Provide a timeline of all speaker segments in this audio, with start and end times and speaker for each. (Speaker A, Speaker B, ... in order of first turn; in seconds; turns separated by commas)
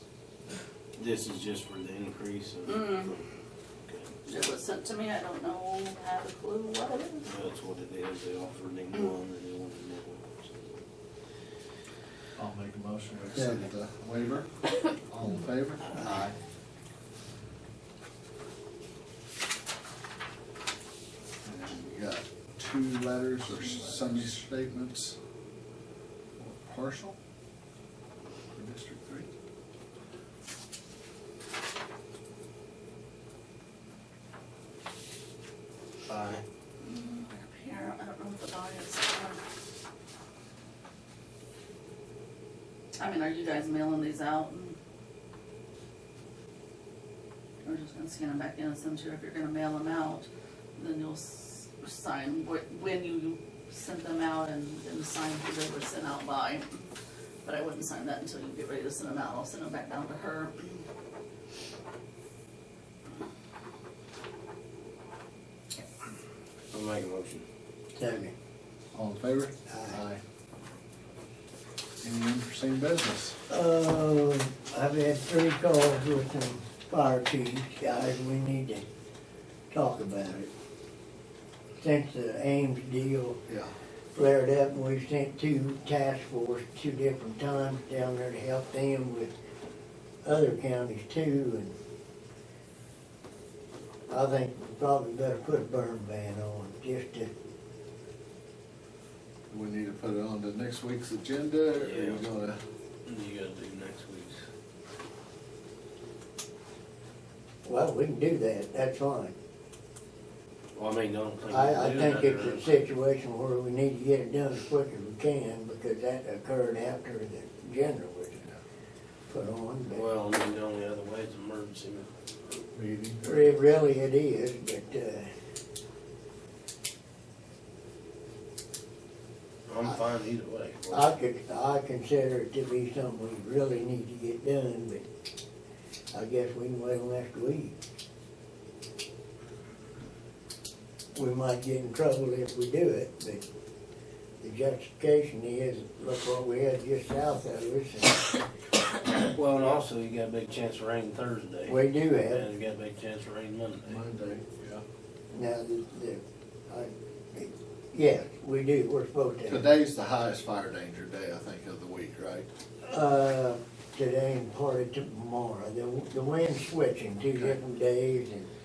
Speaker A: 0.9-3.2, Speaker B: 2.6-3.1, Speaker B: 4.2-7.3, Speaker A: 7.3-10.7, Speaker C: 12.4-16.3, Speaker C: 21.4-25.2, Speaker C: 26.4-27.1, Speaker C: 28.5-29.3, Speaker A: 36.0-36.4, Speaker B: 36.8-39.4, Speaker B: 43.0-44.8, Speaker B: 47.6-56.8, Speaker B: 57.4-60.8, Speaker A: 66.7-67.4, Speaker D: 68.0-68.3, Speaker C: 68.9-70.2, Speaker D: 69.7-70.0, Speaker C: 72.0-73.4, Speaker D: 73.5-78.8, Speaker D: 79.7-80.5, Speaker D: 81.8-83.4, Speaker D: 84.1-89.3, Speaker D: 90.2-91.7, Speaker D: 94.1-97.3, Speaker C: 99.5-102.6, Speaker A: 101.8-102.2, Speaker A: 103.0-104.4, Speaker D: 107.6-109.3, Speaker A: 110.7-112.8, Speaker D: 111.5-118.4, Speaker D: 119.3-120.1, Speaker A: 119.9-122.1, Speaker C: 122.7-123.4, Speaker D: 123.2-125.3, Speaker A: 129.7-131.1, Speaker D: 130.9-135.0, Speaker D: 136.1-137.7, Speaker D: 141.1-143.4, Speaker D: 144.4-148.2, Speaker A: 149.1-154.0, Speaker D: 151.7-152.5, Speaker C: 153.9-154.8, Speaker D: 155.3-159.7, Speaker C: 159.5-162.4, Speaker D: 162.8-168.5